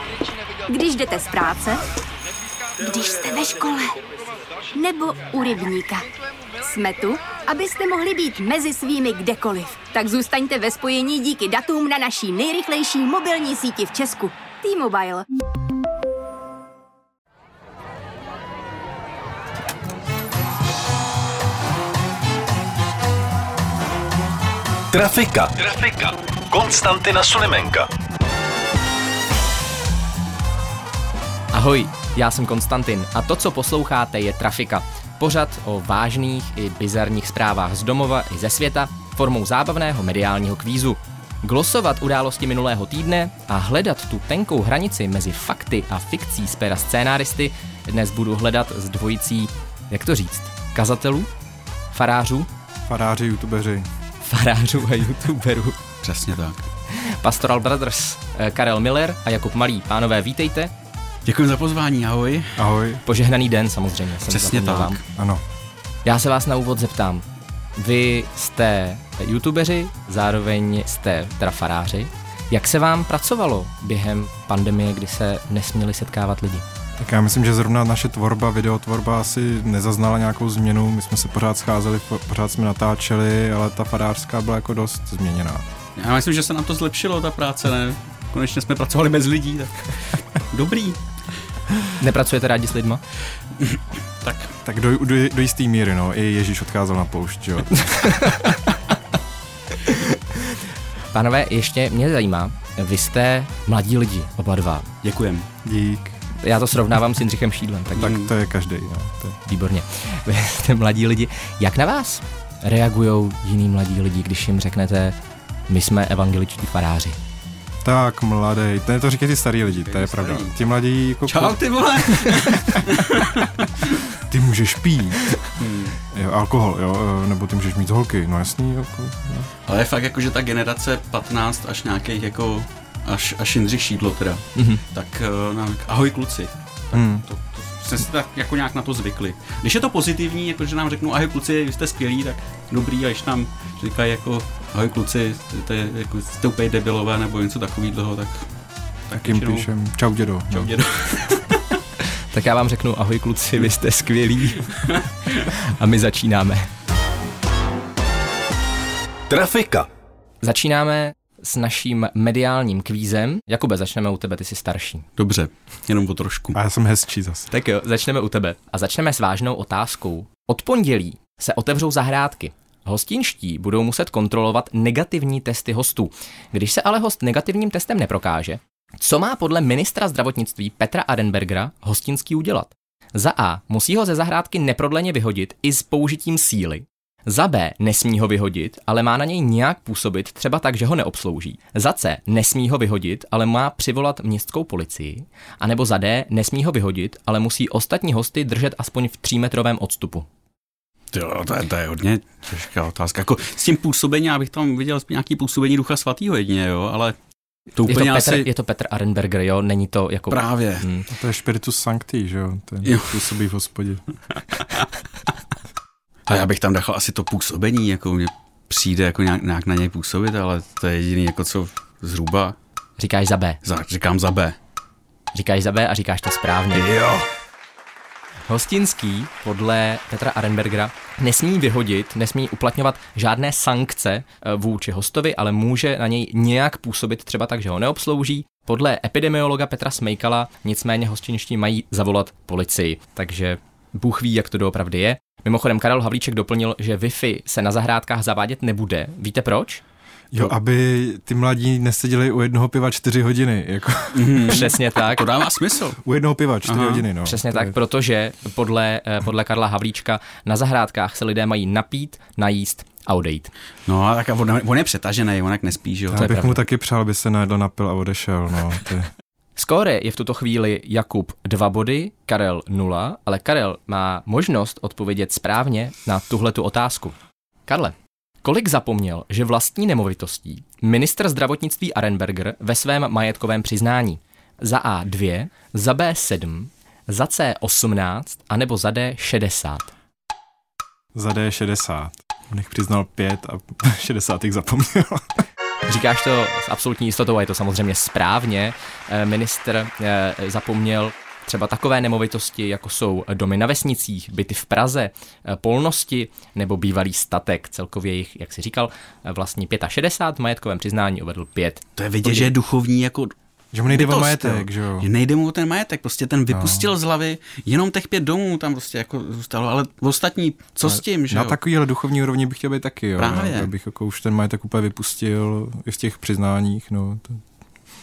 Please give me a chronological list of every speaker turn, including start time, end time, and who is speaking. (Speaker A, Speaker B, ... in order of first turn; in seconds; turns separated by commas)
Speaker A: 0.7-1.8, Speaker A: 2.8-4.0, Speaker A: 4.8-6.0, Speaker A: 6.6-15.2, Speaker B: 24.9-27.9, Speaker C: 31.5-51.3, Speaker C: 51.9-52.5, Speaker D: 52.9-53.9, Speaker C: 54.2-55.8, Speaker E: 56.0-56.7, Speaker C: 56.9-60.7, Speaker E: 61.2-62.7, Speaker D: 62.6-63.0, Speaker C: 63.0-65.0, Speaker E: 64.3-65.0, Speaker D: 65.1-65.4, Speaker C: 66.0-67.2, Speaker C: 67.8-76.6, Speaker D: 77.0-85.6, Speaker E: 86.0-91.0, Speaker C: 92.0-93.0, Speaker E: 93.6-94.5, Speaker D: 94.6-98.2, Speaker C: 98.0-98.7, Speaker C: 99.8-104.9, Speaker E: 105.0-105.5, Speaker D: 105.6-106.2, Speaker C: 106.4-108.2, Speaker D: 108.0-109.4, Speaker E: 108.0-108.3, Speaker C: 109.5-115.2, Speaker C: 115.7-117.2, Speaker D: 117.8-121.6, Speaker E: 119.6-120.5, Speaker E: 121.2-124.0, Speaker D: 122.4-122.8, Speaker D: 124.2-125.4, Speaker E: 125.6-126.0, Speaker D: 126.1-129.5, Speaker E: 129.7-148.4, Speaker C: 134.6-134.8, Speaker D: 136.9-137.2, Speaker E: 149.1-149.7, Speaker D: 149.2-150.8, Speaker E: 150.5-151.8, Speaker C: 152.3-154.7, Speaker E: 154.8-155.4, Speaker C: 155.3-156.7, Speaker B: 159.3-159.9, Speaker C: 160.4-165.1, Speaker E: 165.2-166.6, Speaker D: 166.5-167.5, Speaker C: 167.5-200.2, Speaker E: 201.1-207.2, Speaker E: 207.7-208.5, Speaker C: 207.8-211.1, Speaker E: 210.3-210.8, Speaker D: 211.1-214.0, Speaker E: 212.8-213.3, Speaker E: 216.3-222.6, Speaker C: 223.0-223.6, Speaker E: 223.6-224.6, Speaker C: 225.3-226.9, Speaker E: 226.7-227.3, Speaker C: 228.5-249.8, Speaker D: 250.3-254.6, Speaker E: 254.1-256.0, Speaker C: 254.4-255.2, Speaker D: 256.0-257.7, Speaker E: 256.6-257.1, Speaker C: 257.2-263.5, Speaker E: 263.9-266.6, Speaker D: 266.1-269.1, Speaker C: 269.6-277.1, Speaker C: 277.7-289.9, Speaker D: 291.1-295.4, Speaker C: 295.9-311.8, Speaker E: 312.0-313.3, Speaker D: 312.2-312.5, Speaker D: 313.7-315.1, Speaker E: 313.9-321.6, Speaker D: 316.5-316.9, Speaker D: 320.9-327.4, Speaker E: 323.2-323.7